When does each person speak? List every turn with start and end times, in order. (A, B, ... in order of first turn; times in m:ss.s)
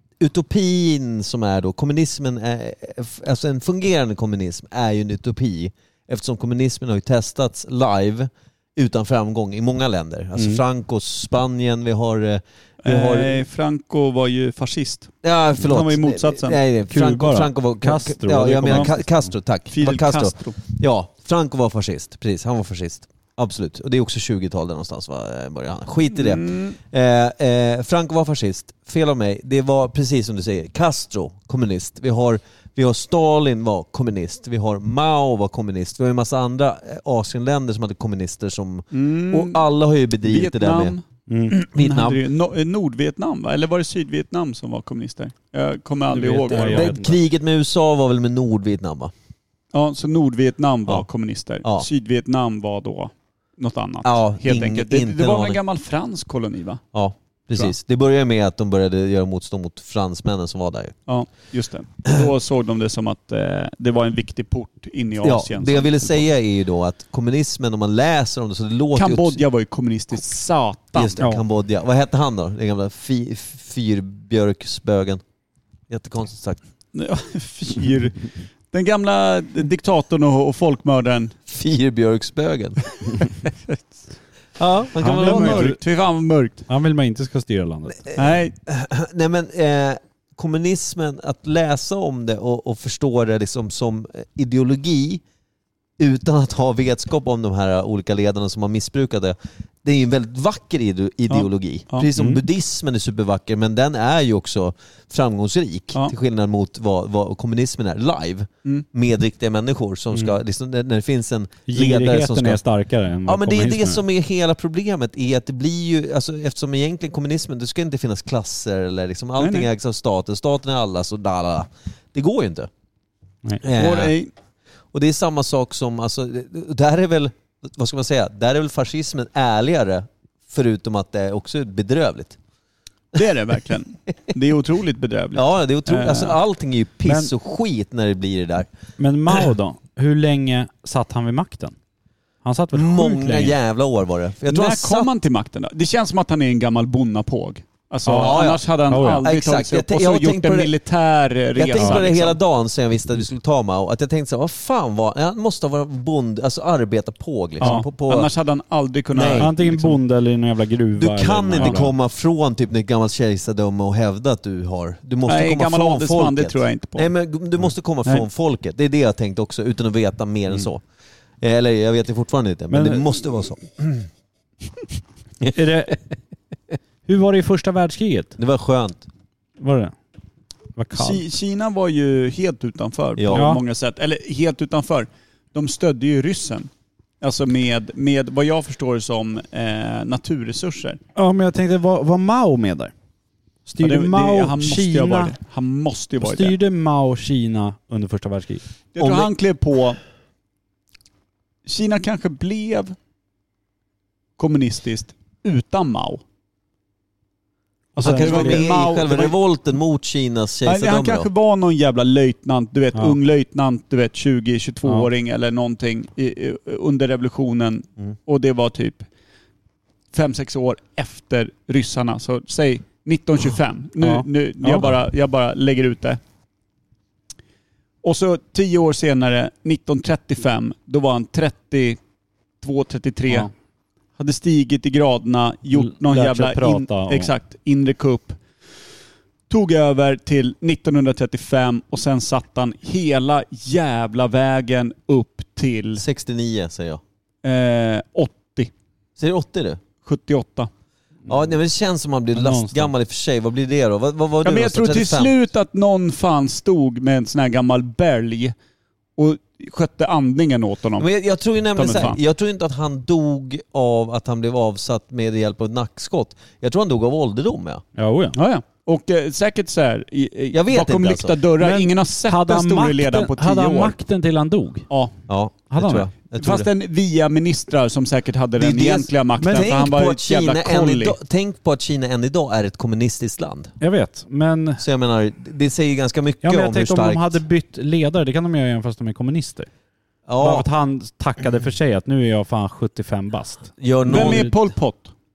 0:00.2-0:13.4 A
0:10.4-0:10.6 B
0:12.8-0:15.1 C
0:15.2-0:40.9 A
0:15.6-0:16.6 C
0:16.9-0:19.3 B
0:19.7-0:20.6 C
0:26.1-0:26.8 C
0:38.9-0:39.6 C
0:40.2-0:41.0 C
0:41.3-0:41.6 B
0:41.5-0:42.2 A
0:41.7-0:47.0 C
0:46.1-0:47.2 B
0:46.5-0:49.1 A
0:49.7-0:56.8 C
0:54.0-0:55.6 A
0:56.9-1:01.0 A
1:01.1-1:06.2 C
1:05.2-1:09.4 A
1:08.9-1:11.2 C
1:10.9-1:15.2 A
1:15.9-1:16.6 A
1:16.9-1:21.3 C
1:21.5-1:22.8 A
1:23.4-1:24.0 C
1:24.6-1:25.7 A
1:25.0-1:25.8 B
1:25.1-1:26.6 C
1:26.7-1:28.0 B
1:28.0-1:35.2 A
1:28.1-1:28.5 C
1:36.0-1:52.6 A
1:41.3-1:42.1 C
1:42.1-1:42.4 B
1:51.7-1:54.0 B
1:53.2-2:02.7 A
1:59.4-1:59.7 C
2:03.6-2:04.1 A
2:03.7-2:04.3 C
2:04.9-2:12.4 A
2:13.1-2:16.4 C
2:15.3-2:18.7 A
2:17.0-2:17.3 B
2:19.0-2:21.8 B
2:22.4-2:23.6 B
2:22.7-2:25.1 A
2:24.5-2:32.4 C
2:28.0-2:29.2 B
2:28.2-2:30.7 A
2:31.6-2:38.3 A
2:37.6-2:40.0 C
2:39.1-2:39.5 A
2:39.4-2:41.9 B
2:41.0-2:50.8 A
2:45.2-2:47.1 C
2:51.4-2:54.1 A
2:52.7-2:53.0 B
2:55.5-2:56.0 B
2:57.0-2:58.3 B
2:58.4-2:59.0 A
2:59.6-2:59.9 B
3:00.8-3:01.2 B
3:00.9-3:06.7 C
3:03.2-3:03.6 A
3:03.3-3:03.6 B
3:07.2-3:11.0 C
3:11.1-3:12.9 B
3:13.6-3:15.4 B
3:13.8-3:16.6 C
3:16.2-3:18.6 B
3:18.9-3:20.0 C
3:19.0-3:19.3 A
3:21.6-3:23.0 C
3:24.4-3:26.2 C
3:27.9-3:29.4 C
3:28.0-3:28.7 B
3:28.0-3:31.3 A
3:30.6-3:39.0 C
3:40.1-3:46.2 C
3:44.0-3:45.0 B
3:48.0-3:52.0 C
3:52.6-3:53.5 C
3:54.2-3:58.4 C
3:55.7-3:57.3 B
3:59.5-4:06.0 C
4:06.0-4:07.0 A
4:07.4-4:08.7 C
4:09.2-4:09.8 A
4:10.0-4:10.7 C
4:11.3-4:15.4 A
4:12.3-4:12.9 B
4:14.4-4:18.5 C
4:19.2-4:21.1 C
4:21.0-4:27.8 A
4:21.8-4:22.2 C
4:28.0-4:28.3 B
4:28.3-4:34.0 C
4:30.5-4:31.4 A
4:31.6-4:34.9 B
4:35.3-4:36.7 A
4:35.7-4:36.1 B
4:36.4-4:41.2 C
4:38.6-4:43.8 A
4:39.4-4:39.7 B
4:43.8-4:44.8 B
4:44.8-4:47.4 A
4:46.4-4:49.7 B
4:50.3-4:50.6 A
4:50.4-4:54.5 B
4:53.8-4:54.5 A
4:54.1-4:55.1 C